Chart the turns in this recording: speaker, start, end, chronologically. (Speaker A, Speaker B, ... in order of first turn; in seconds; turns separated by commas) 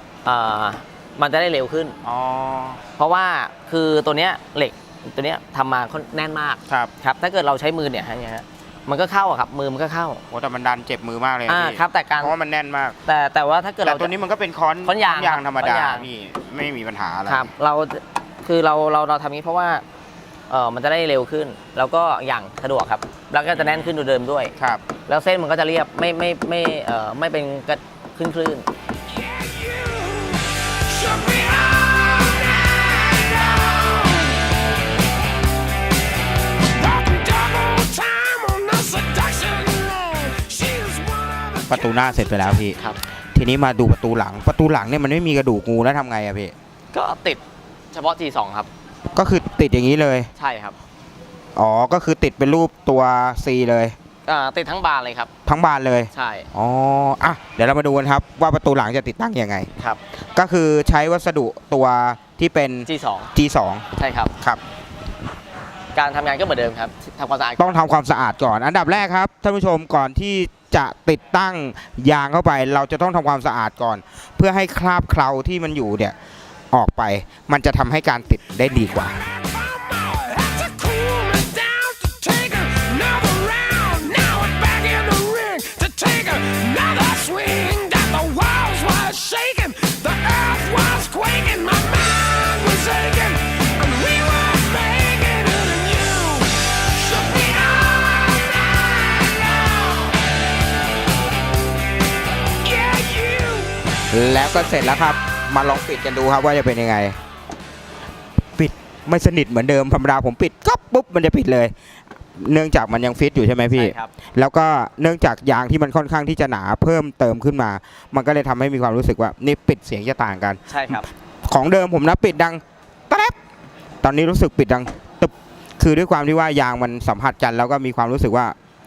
Speaker A: 0.2-1.9, Speaker B: 2.0-2.8, Speaker A: 3.0-10.2, Speaker B: 10.3-13.0, Speaker A: 11.5-12.3, Speaker A: 13.1-14.1, Speaker B: 13.8-17.5, Speaker A: 14.8-16.1, Speaker A: 17.3-19.8, Speaker A: 20.5-24.5, Speaker B: 23.5-23.9, Speaker B: 24.6-24.8, Speaker A: 25.1-28.7, Speaker C: 29.1-34.4, Speaker C: 36.6-42.6, Speaker B: 41.7-42.8, Speaker B: 43.3-46.5, Speaker A: 46.9-48.7, Speaker B: 49.1-50.3, Speaker A: 50.4-50.8, Speaker B: 51.5-54.0, Speaker A: 54.2-55.3, Speaker B: 55.5-59.7, Speaker A: 56.1-56.5, Speaker B: 60.3-63.9, Speaker A: 62.9-63.3, Speaker A: 64.0-64.3, Speaker A: 65.9-67.8, Speaker B: 67.6-76.1, Speaker B: 76.7-79.2, Speaker C: 79.2-100.2, Speaker C: 102.6-103.7, Speaker B: 104.1-107.2, Speaker B: 108.6-111.7, Speaker B: 112.3-123.3, Speaker A: 113.7-114.1, Speaker A: 120.7-121.1, Speaker B: 124.0-128.6